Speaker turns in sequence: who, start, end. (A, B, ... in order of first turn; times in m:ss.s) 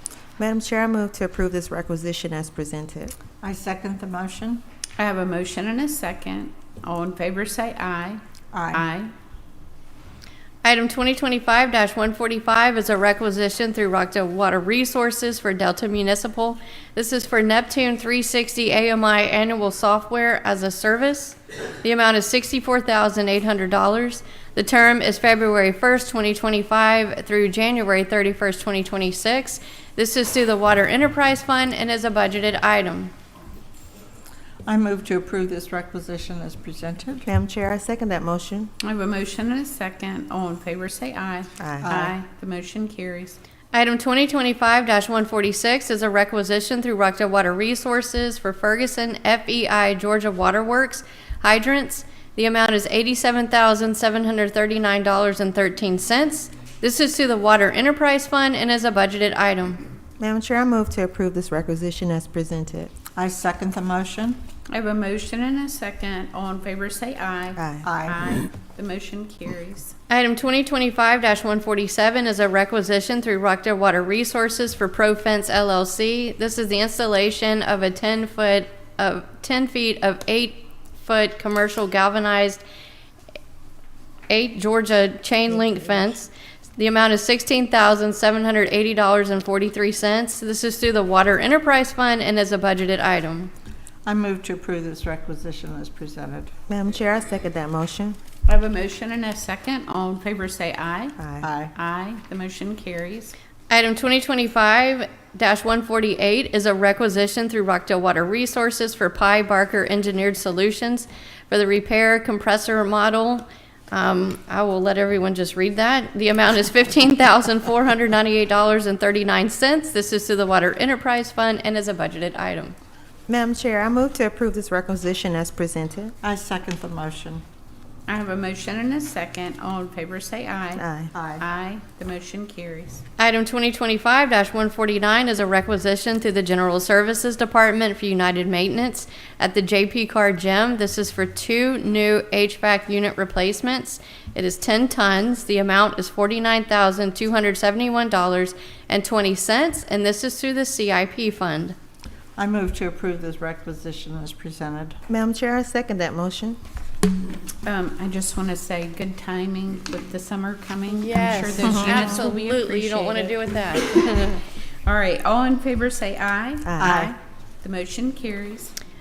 0:00.4-0:03.2 A
0:03.4-0:04.6 B
0:05.0-0:09.1 C
0:08.5-0:08.8 B
0:10.6-0:33.1 D
0:34.7-0:37.2 B
0:37.2-0:38.7 A
0:38.8-0:43.4 C
0:41.6-0:41.9 A
0:41.8-0:42.2 B
0:43.7-0:59.8 D
1:00.2-1:02.9 A
1:03.2-1:04.4 B
1:04.7-1:09.9 C
1:07.6-1:07.9 A
1:07.8-1:08.2 B
1:10.1-1:22.6 D
1:24.3-1:33.5 D
1:34.1-1:36.5 B
1:36.7-1:38.2 A
1:38.5-1:41.2 C
1:41.2-1:41.5 A
1:41.4-1:41.7 B
1:41.8-1:43.3 C
1:43.7-2:02.8 D
2:03.3-2:06.2 A
2:06.2-2:07.4 B
2:08.1-2:10.8 C
2:10.8-2:11.1 A
2:11.1-2:11.4 B
2:11.4-2:13.0 C
2:13.2-2:31.8 D
2:32.4-2:35.0 B
2:35.1-2:36.6 A
2:37.6-2:43.4 C
2:40.9-2:44.4 D
2:41.7-2:42.2 A
2:41.7-2:42.0 B
2:44.8-2:48.7 C
2:46.6-2:47.1 A
2:46.8-2:47.1 B